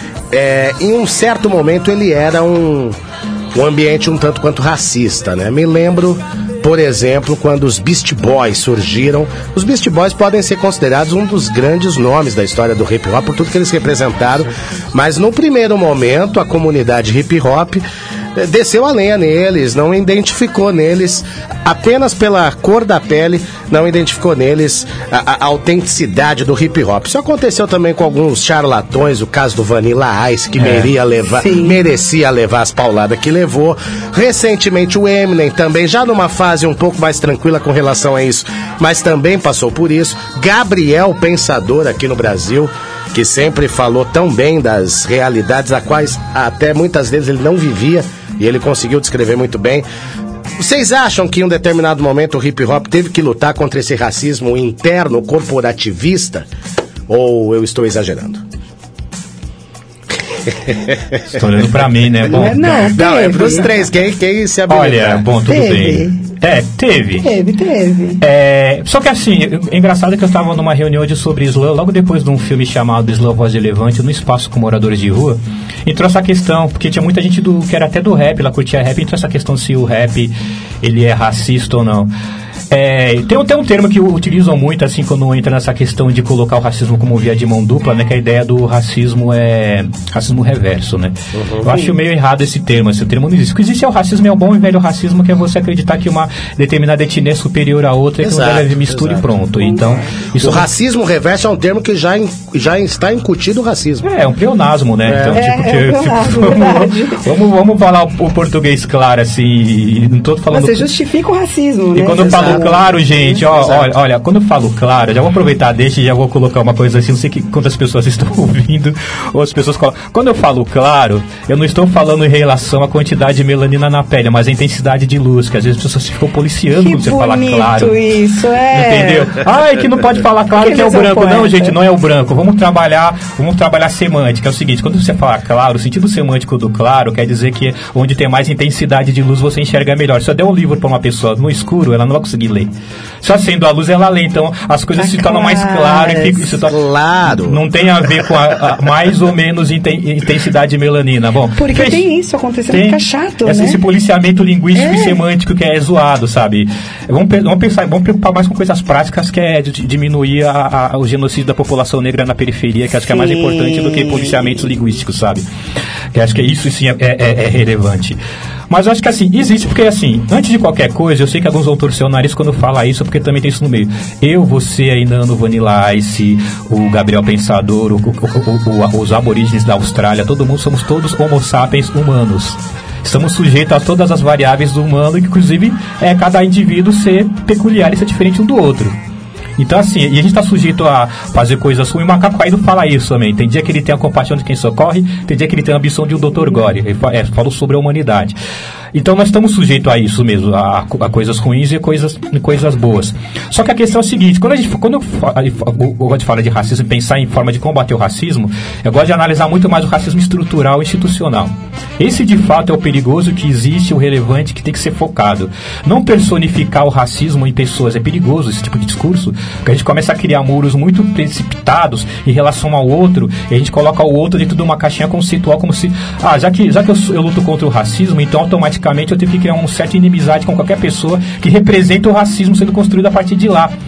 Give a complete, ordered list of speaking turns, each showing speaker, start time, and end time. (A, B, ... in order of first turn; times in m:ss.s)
0:00.3-0:03.0 A
0:03.5-0:17.8 A
0:18.4-0:49.8 A
0:30.6-0:30.9 B
0:31.3-0:31.8 C
0:50.6-0:56.5 A
0:57.1-0:58.4 A
1:00.5-1:01.2 A
1:01.3-1:02.9 B
1:02.3-1:03.7 C
1:02.8-1:05.3 A
1:04.7-1:07.4 B
1:05.5-1:06.2 C
1:07.2-1:08.2 C
1:08.2-1:22.1 B
1:22.7-1:40.7 B
1:31.3-1:31.7 A
1:31.7-1:32.0 C
1:38.2-1:39.3 A
1:39.6-1:40.1 C
1:40.4-1:44.1 A
1:44.0-1:50.8 B
1:45.0-1:45.4 A
1:45.3-1:47.2 C
1:50.5-1:53.4 C
1:52.0-2:08.0 B
1:52.2-1:53.9 A
2:06.8-2:09.3 C
2:08.7-2:22.7 B
2:10.6-2:11.8 C
2:23.2-2:32.1 B
2:25.0-2:26.5 C
2:26.7-2:27.6 A
2:31.6-2:33.8 C
2:32.7-2:45.5 B
2:34.7-2:35.2 C
2:43.1-2:44.6 C
2:46.1-2:48.2 B
2:48.7-3:08.9 B
3:09.6-3:18.4 B
3:18.9-3:53.7 B